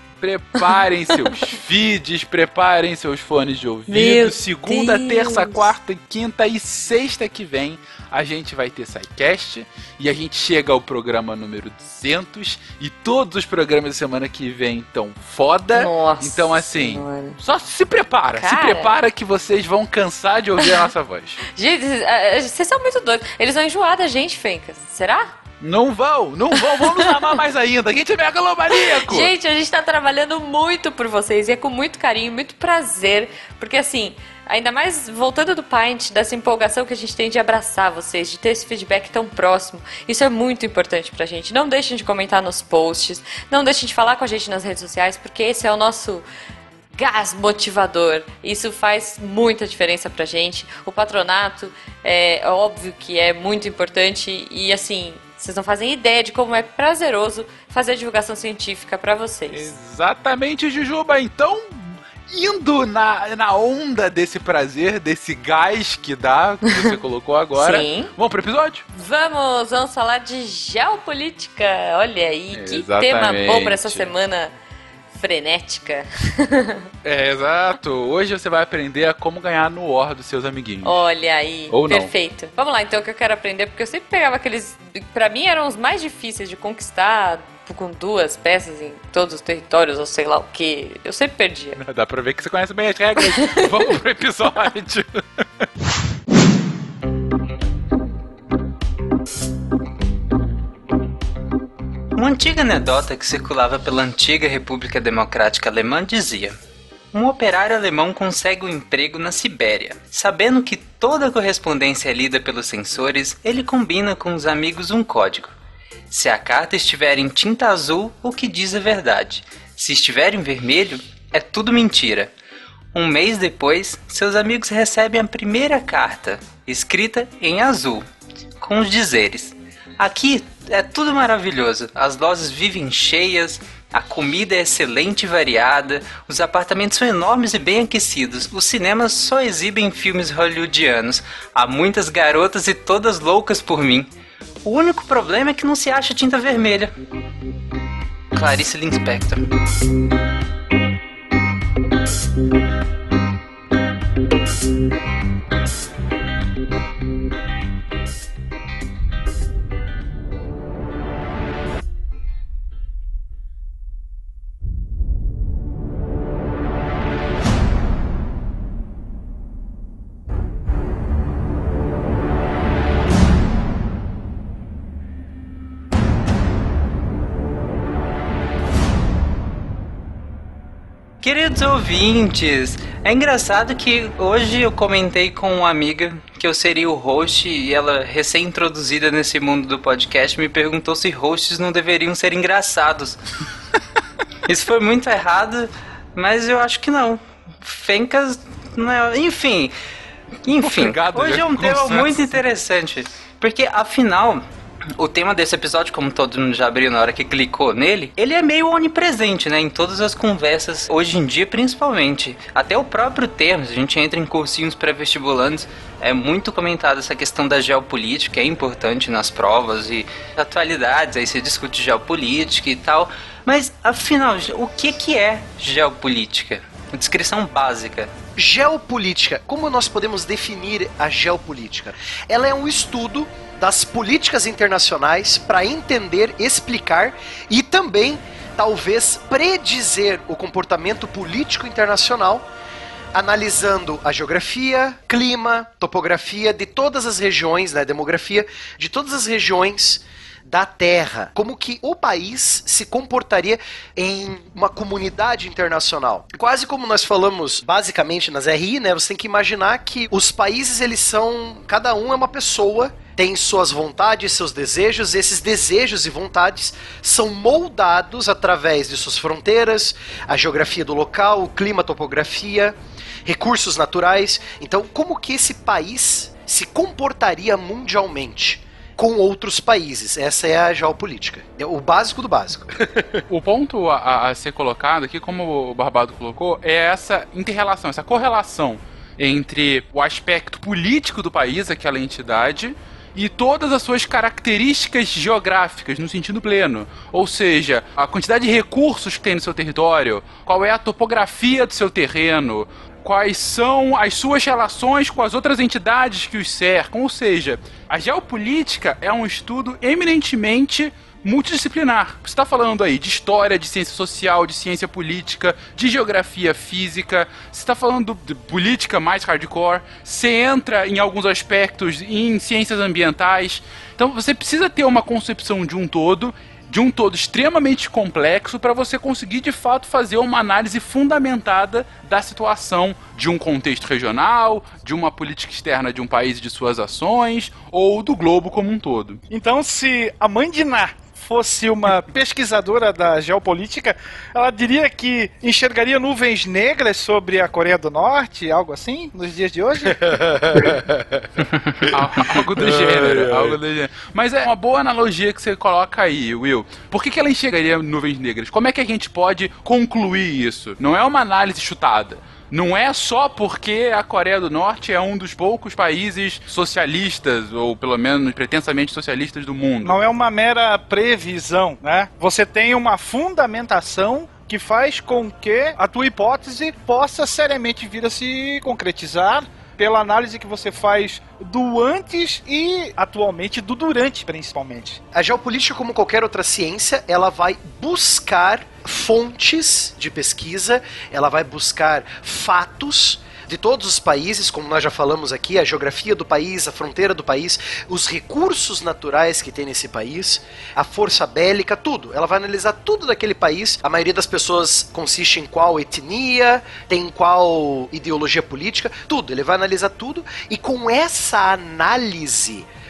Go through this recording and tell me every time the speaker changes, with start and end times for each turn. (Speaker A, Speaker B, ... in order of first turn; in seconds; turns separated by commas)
Speaker A: 0.2-21.4, Speaker B: 0.6-1.5, Speaker B: 3.9-5.7, Speaker B: 15.7-17.4, Speaker B: 18.4-19.0, Speaker B: 21.6-25.4, Speaker A: 25.6-29.3, Speaker B: 26.5-27.4, Speaker B: 28.7-46.3, Speaker B: 47.0-59.7, Speaker A: 59.5-68.8, Speaker B: 67.5-68.1, Speaker B: 68.9-74.5, Speaker A: 72.5-74.1, Speaker B: 75.1-76.8, Speaker A: 77.0-81.0, Speaker B: 80.8-91.8, Speaker A: 81.7-82.1, Speaker A: 91.8-95.7, Speaker B: 93.4-93.8, Speaker C: 102.2-106.6, Speaker C: 107.1-115.5, Speaker C: 116.1-122.3, Speaker C: 122.9-128.1, Speaker C: 128.6-144.1, Speaker C: 144.6-146.9, Speaker C: 148.3-149.5, Speaker C: 181.2-193.2, Speaker C: 194.5-199.7, Speaker C: 200.4-204.4, Speaker A: 200.6-202.4, Speaker C: 205.0-228.1, Speaker D: 228.4-242.5, Speaker D: 243.1-283.2, Speaker A: 283.3-339.2, Speaker E: 339.3-350.1, Speaker D: 350.5-350.8, Speaker A: 351.8-370.0, Speaker D: 352.6-353.5, Speaker E: 369.8-385.0, Speaker D: 385.1-412.7